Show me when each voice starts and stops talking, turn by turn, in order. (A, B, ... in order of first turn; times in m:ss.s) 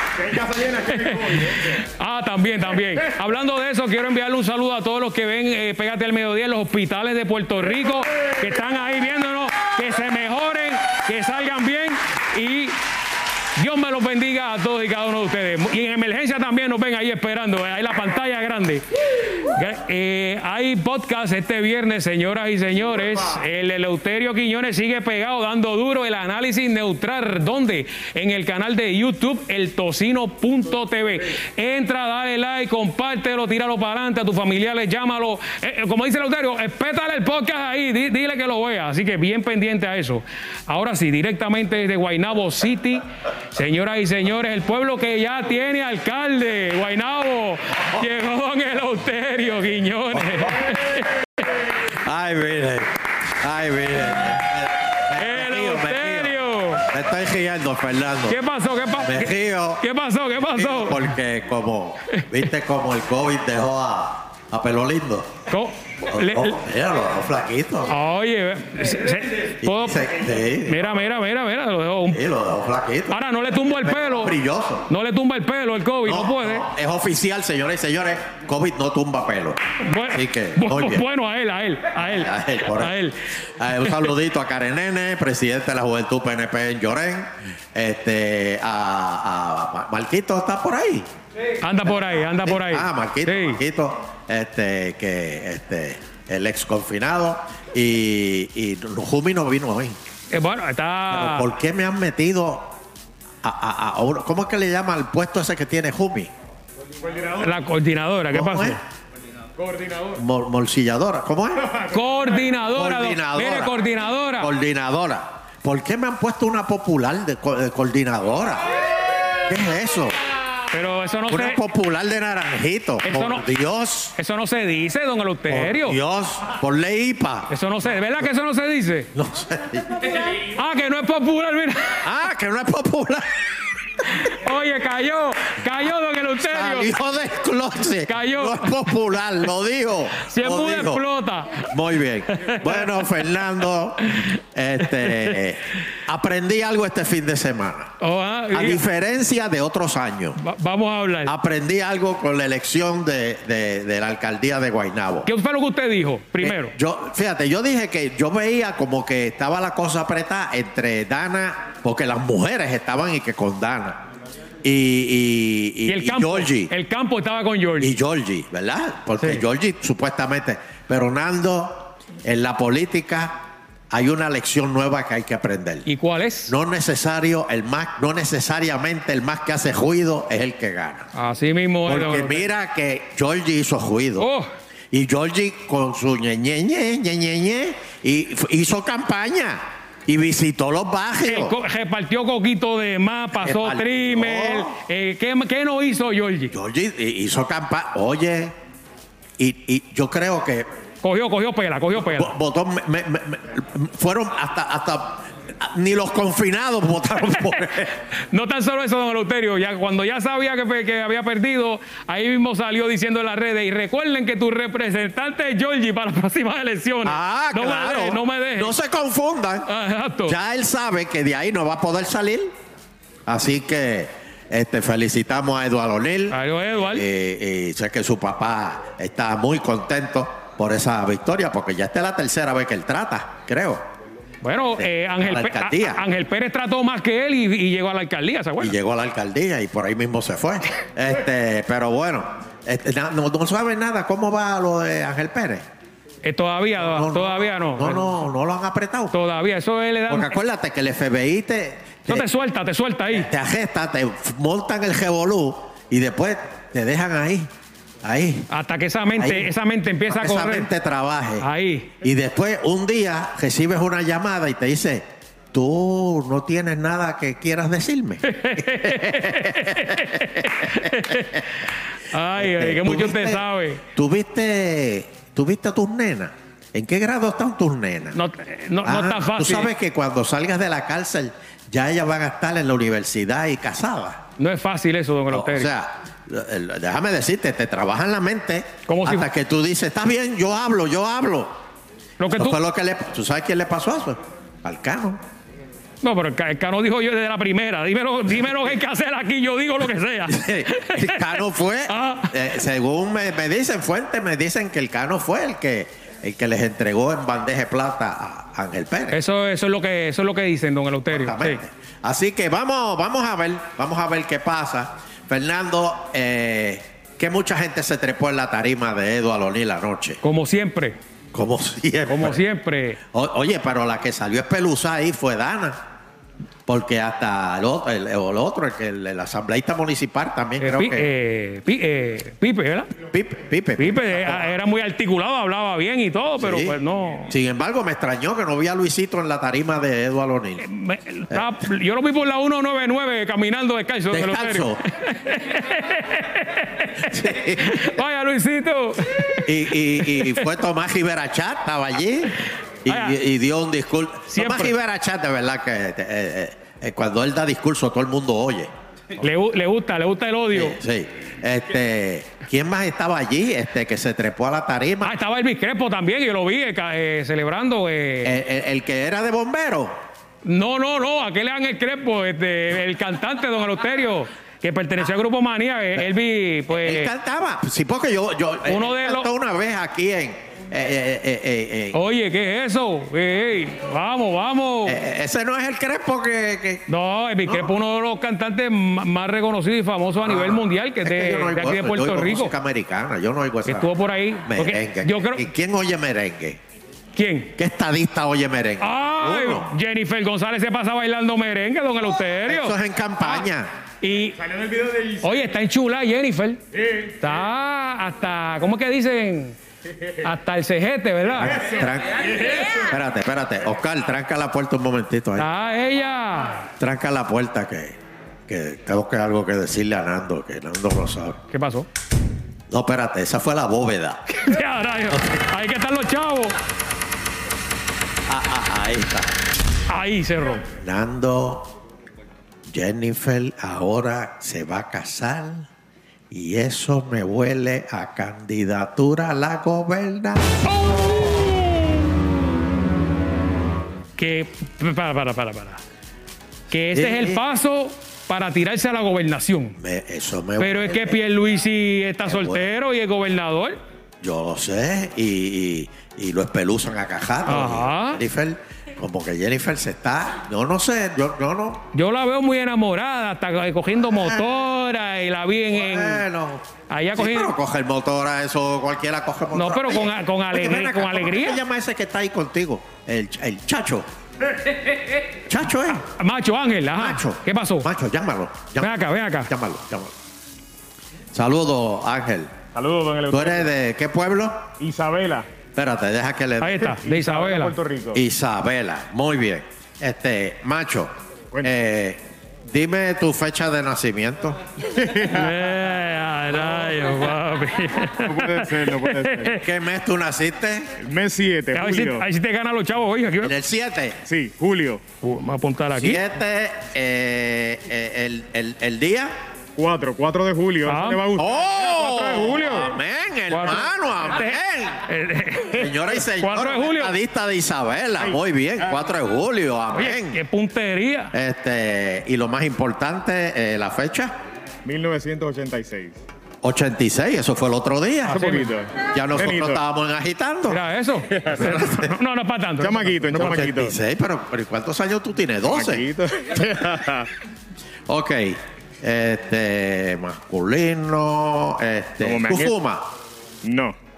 0:00.2-0:01.7 A
0:00.9-0:12.8 B
0:13.6-0:51.5 B
0:51.8-0:58.4 C
0:55.1-0:56.9 B
0:58.3-1:01.1 B
0:59.0-0:59.8 C
1:00.6-1:05.3 C
1:05.5-1:06.6 B
1:06.1-1:07.9 C
1:07.9-1:10.1 B
1:09.6-1:10.8 C
1:10.6-1:12.2 B
1:12.1-1:14.9 C
1:13.1-1:14.4 B
1:14.9-1:16.7 B
1:16.0-1:21.1 C
1:19.8-1:24.1 B
1:21.9-1:31.1 C
1:31.6-1:33.6 B
1:31.9-1:40.0 C
1:40.3-1:41.5 B
1:41.1-1:42.7 C
1:43.4-1:46.3 C
1:47.0-1:47.5 A
1:47.4-1:48.8 B
1:48.3-1:48.8 C
1:49.6-1:50.2 A
1:50.2-1:51.7 C
1:51.9-1:54.5 B
1:52.7-1:53.8 C
1:54.4-1:58.6 C
1:59.5-2:00.2 C
2:00.7-2:01.6 B
2:01.3-2:04.2 C
2:03.0-2:03.5 B
2:04.2-2:06.0 B
2:05.5-2:07.5 C
2:07.5-2:09.1 B
2:09.2-2:10.1 C
2:10.2-2:12.0 B
2:12.0-2:13.3 C
2:14.1-2:16.9 B
2:16.4-2:21.0 C
2:18.1-2:18.9 B
2:20.2-2:21.7 B
2:21.7-2:27.9 C
2:22.3-2:22.9 B
2:25.0-2:25.3 B
2:28.0-2:28.8 B
2:28.5-2:30.4 C
2:30.4-2:31.3 B
2:31.3-2:35.3 C
2:35.3-2:36.7 B
2:36.4-2:44.0 C
2:44.6-2:46.7 C
2:45.9-2:48.0 B
2:47.8-2:53.4 C
2:53.9-2:55.9 C
2:55.8-2:56.5 B
2:56.5-3:01.1 C
3:01.1-3:02.5 B
3:01.9-3:04.3 C
3:04.2-3:04.5 B
3:04.9-3:11.6 C
3:11.3-3:16.6 B
3:13.3-3:14.8 C
3:16.5-3:18.5 C
3:19.4-3:20.7 C
3:21.0-3:22.3 B
3:21.9-3:27.9 C
3:28.3-3:38.8 B
3:37.0-3:39.7 C
3:39.7-3:40.4 B
3:40.2-3:42.5 C
3:43.3-3:53.8 C
3:46.3-3:47.1 B
3:54.4-3:58.8 B
3:54.8-3:56.0 C
3:58.6-4:05.6 C
4:06.2-4:08.1 B
4:06.8-4:09.2 C
4:09.1-4:10.4 B
4:10.1-4:12.3 C
4:12.1-4:13.3 B
4:13.1-4:17.5 C
4:18.0-4:18.5 C
4:18.5-4:20.7 B
4:19.2-4:19.5 C
4:20.1-4:21.5 C
4:21.4-4:21.9 B
4:22.0-4:31.2 C
4:28.2-4:33.8 B
4:32.4-4:33.4 C
4:34.0-4:38.2 C
4:38.2-4:39.7 B
4:38.8-4:44.2 C
4:44.4-4:45.7 B
4:45.3-4:51.5 C
4:48.9-4:49.3 B
4:52.2-4:52.6 B
4:52.3-4:55.2 C
4:56.0-5:02.4 B
5:00.3-5:09.2 C
5:09.1-5:11.6 B
5:11.1-5:20.2 C
5:20.2-5:21.0 B
5:21.3-5:22.4 C
5:22.1-5:23.0 B
5:23.1-5:25.8 C
5:26.7-5:31.1 C
5:30.6-5:32.9 B
5:33.0-5:34.6 C
5:33.8-5:37.3 B
5:36.4-5:36.8 C
5:37.3-5:40.6 C
5:40.6-5:50.5 B
5:44.1-5:44.8 C
5:47.0-5:48.0 C
5:49.5-5:58.7 C
5:52.9-5:53.2 B
5:54.3-5:54.7 B
5:59.2-6:00.8 B
6:00.5-6:05.2 C
6:05.0-6:08.4 B
6:08.2-6:09.9 C
6:10.4-6:17.1 B
6:16.7-6:22.0 C
6:18.6-6:19.3 B
6:21.9-6:25.0 B
6:24.9-6:26.9 C
6:26.9-6:32.6 B
6:27.4-6:27.7 C
6:30.2-6:33.9 C
6:33.7-6:35.5 B
6:34.5-6:36.6 C
6:37.2-6:37.5 B
6:37.6-6:39.7 C
6:38.8-6:43.4 B
6:42.5-6:43.7 C
6:44.0-6:44.4 B
6:44.4-6:45.2 A
6:45.2-6:46.6 B
6:47.2-6:49.6 B
6:50.2-6:51.6 B
6:51.6-6:55.5 C
6:55.4-6:56.7 B
6:56.8-6:58.0 C
6:58.5-7:01.4 C
7:01.5-7:01.9 B
7:02.7-7:04.2 C
7:04.4-7:06.5 B
7:05.1-7:05.4 C
7:08.3-7:09.3 C
7:09.9-7:10.6 B
7:10.8-7:11.7 C
7:12.7-7:15.7 C
7:16.3-7:20.5 C
7:20.7-7:21.9 B
7:24.2-7:25.8 B
7:26.7-7:29.8 B
7:26.9-7:27.4 C
7:29.8-7:31.2 C
7:30.6-7:33.8 B
7:32.2-7:32.7 C
7:34.2-7:41.8 C
7:37.5-7:38.2 B
7:41.9-7:46.2 B
7:44.2-7:44.5 C
7:45.7-7:46.6 C
7:46.9-7:47.6 B
7:47.2-7:54.1 C
7:49.5-7:51.6 B
7:55.5-7:56.0 C
7:56.0-7:57.9 B
7:57.0-8:00.1 C
7:58.8-7:59.5 B
8:01.3-8:02.5 C
8:02.8-8:03.7 A
8:03.3-8:04.6 C
8:04.8-8:05.5 A
8:05.8-8:07.0 C
8:06.6-8:07.7 B
8:06.9-8:08.2 A
8:08.1-8:11.1 C
8:11.6-8:14.6 C
8:14.9-8:15.6 A
8:15.2-8:19.6 B
8:16.6-8:17.1 A
8:18.2-8:19.6 A
8:19.6-8:20.9 C
8:21.0-8:22.2 A
8:21.7-8:23.5 B
8:23.4-8:24.2 C
8:24.3-8:25.0 A
8:25.2-8:26.3 B
8:25.9-8:29.3 C
8:29.8-8:32.9 A
8:30.9-8:31.2 B
8:31.4-8:35.0 C
8:31.9-8:32.9 B
8:33.5-8:37.2 B
8:35.7-8:40.4 C
8:39.9-8:41.3 B
8:41.3-8:44.3 C
8:44.8-8:46.2 A
8:46.6-8:48.4 C
8:48.3-8:48.7 B
8:48.3-8:49.8 A
8:49.0-8:50.8 C
8:50.7-8:53.3 B
8:51.3-8:51.8 A
8:51.6-8:52.1 C
8:52.8-8:54.0 A
8:53.3-8:56.0 C
8:55.7-8:57.3 A
8:58.1-9:03.0 C
9:02.2-9:02.8 A
9:03.6-9:04.0 A